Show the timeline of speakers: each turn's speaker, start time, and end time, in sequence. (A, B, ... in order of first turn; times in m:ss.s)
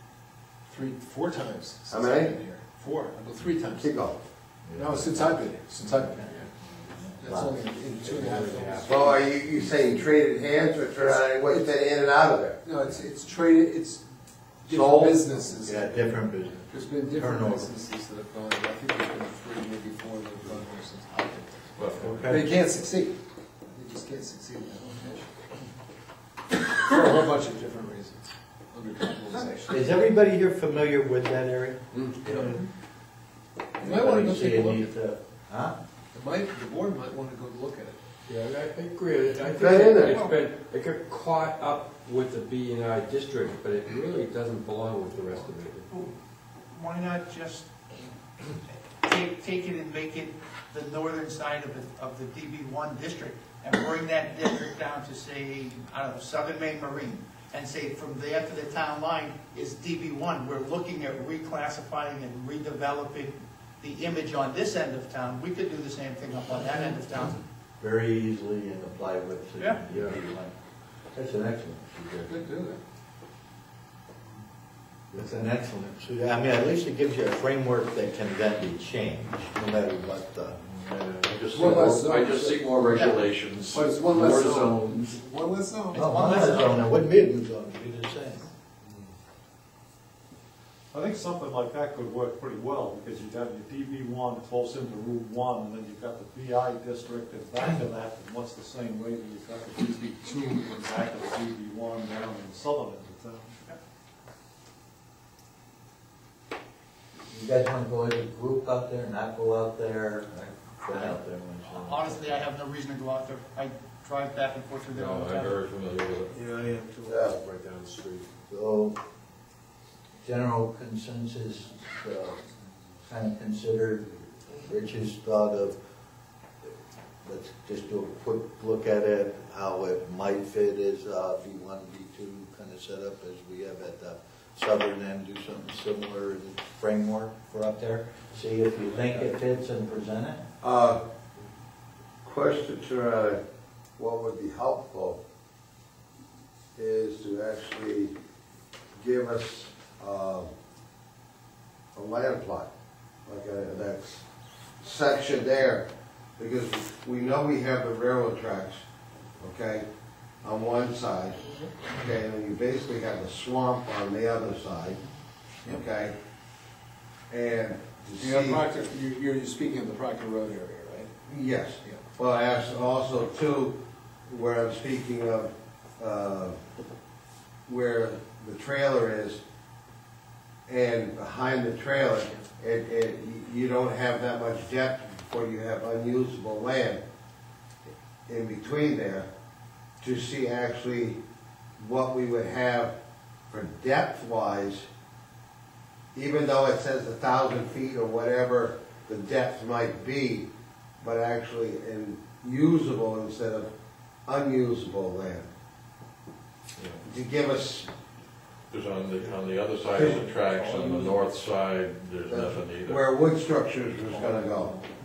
0:00.7-0:03.9 A
0:01.9-0:02.4 B
0:03.8-0:04.2 B
0:04.6-0:08.8 C
0:04.7-0:06.5 A
0:07.2-0:09.3 A
0:08.8-0:12.6 B
0:11.0-0:11.7 A
0:12.6-0:14.0 A
0:14.6-0:21.5 A
0:14.6-0:15.2 B
0:15.6-0:17.7 C
0:21.8-0:22.1 D
0:22.0-0:22.5 C
0:22.2-0:25.3 A
0:26.7-0:29.9 A
0:29.7-0:32.5 C
0:32.3-0:32.6 E
0:33.8-0:34.9 A
0:33.8-0:35.8 C
0:36.1-0:38.0 A
0:38.3-0:45.9 E
0:39.5-0:40.2 B
0:40.1-0:40.4 F
0:45.9-0:46.2 F
0:46.7-0:47.7 F
0:49.0-1:07.4 F
1:07.8-1:10.5 C
1:11.1-1:12.5 C
1:12.2-1:12.8 A
1:15.1-1:20.6 C
1:20.6-1:24.7 D
1:21.5-1:22.0 C
1:21.5-1:22.7 A
1:22.9-1:23.2 F
1:23.7-1:26.8 A
1:24.1-1:25.2 C
1:25.9-1:28.5 C
1:26.2-1:26.6 F
1:30.9-1:43.5 G
1:47.3-1:52.5 C
1:51.7-1:55.6 F
1:54.9-1:56.4 D
1:56.4-1:57.4 B
1:57.3-1:58.3 E
1:58.5-1:59.0 C
2:00.2-2:02.4 C
2:03.0-2:05.8 C
2:07.2-2:20.4 C
2:20.6-2:21.0 B
2:22.2-2:23.4 B
2:24.0-2:25.2 B
2:26.8-2:28.1 B
2:29.0-2:30.5 B
2:32.0-2:32.7 B
2:33.3-2:34.2 B
2:34.8-2:38.8 B
2:39.4-2:39.9 B
2:40.4-2:45.0 B
2:45.6-2:46.1 B
2:47.3-2:48.6 B
2:48.2-2:51.2 A
2:51.3-2:56.6 B
2:57.7-2:59.4 B
3:00.7-3:07.0 B
3:08.3-3:09.3 B
3:10.0-3:11.2 B
3:11.8-3:12.9 B
3:13.5-3:14.9 B
3:16.1-3:20.5 B
3:21.0-3:23.7 B
3:24.3-3:25.5 B
3:26.8-3:27.0 D
3:27.0-3:27.9 B
3:28.7-3:33.1 D
3:30.0-3:30.2 B
3:32.3-3:34.7 B
3:34.2-3:34.7 C